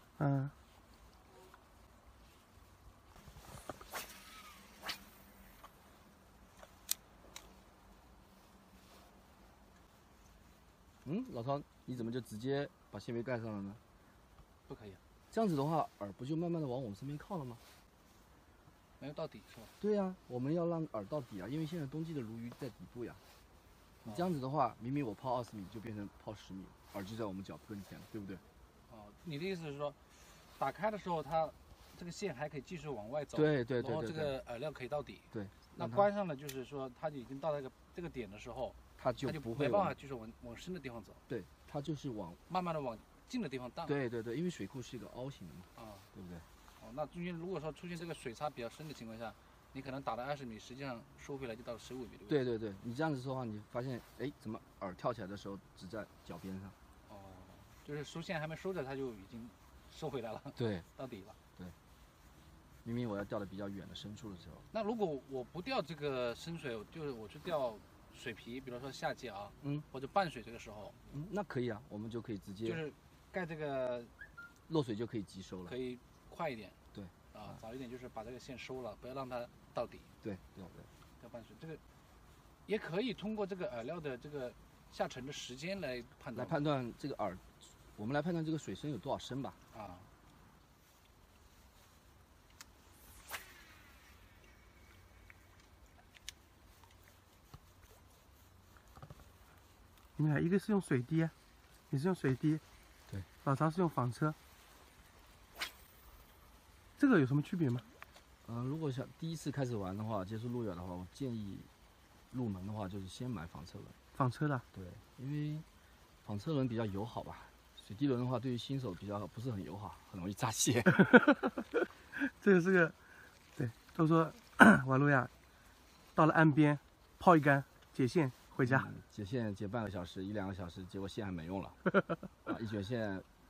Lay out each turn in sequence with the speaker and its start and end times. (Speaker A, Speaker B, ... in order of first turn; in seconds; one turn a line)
Speaker A: 0.2-0.5
Speaker B: 11.0-13.8
Speaker C: 14.7-15.0
Speaker B: 15.3-17.6
Speaker C: 19.0-19.7
Speaker B: 19.8-23.2
Speaker B: 24.0-28.4
Speaker C: 28.9-41.2
Speaker B: 33.3-34.4
Speaker B: 35.3-36.1
Speaker B: 39.0-40.0
Speaker B: 41.3-42.4
Speaker C: 42.5-44.0
Speaker B: 43.9-46.5
Speaker C: 45.8-46.1
Speaker C: 46.8-52.4
Speaker B: 52.3-56.8
Speaker C: 57.1-61.4
Speaker B: 60.6-60.9
Speaker B: 62.8-64.7
Speaker C: 64.7-71.0
Speaker B: 71.1-72.8
Speaker C: 72.7-74.1
Speaker B: 74.7-75.8
Speaker C: 75.7-76.8
Speaker B: 76.9-77.6
Speaker C: 77.3-80.1
Speaker B: 80.2-80.9
Speaker C: 81.2-81.8
Speaker C: 82.7-86.6
Speaker B: 86.3-89.6
Speaker C: 89.7-90.1
Speaker A: 100.2-101.3
Speaker A: 101.9-102.6
Speaker A: 103.4-104.4
Speaker A: 107.0-107.8
Speaker B: 108.5-111.7
Speaker B: 112.3-114.0
Speaker A: 114.2-114.6
Speaker B: 114.7-115.7
Speaker B: 116.2-121.0
Speaker A: 121.0-121.6
Speaker A: 122.2-123.0
Speaker A: 123.6-125.3
Speaker A: 126.2-128.9
Speaker B: 128.6-131.8
Speaker B: 132.5-133.3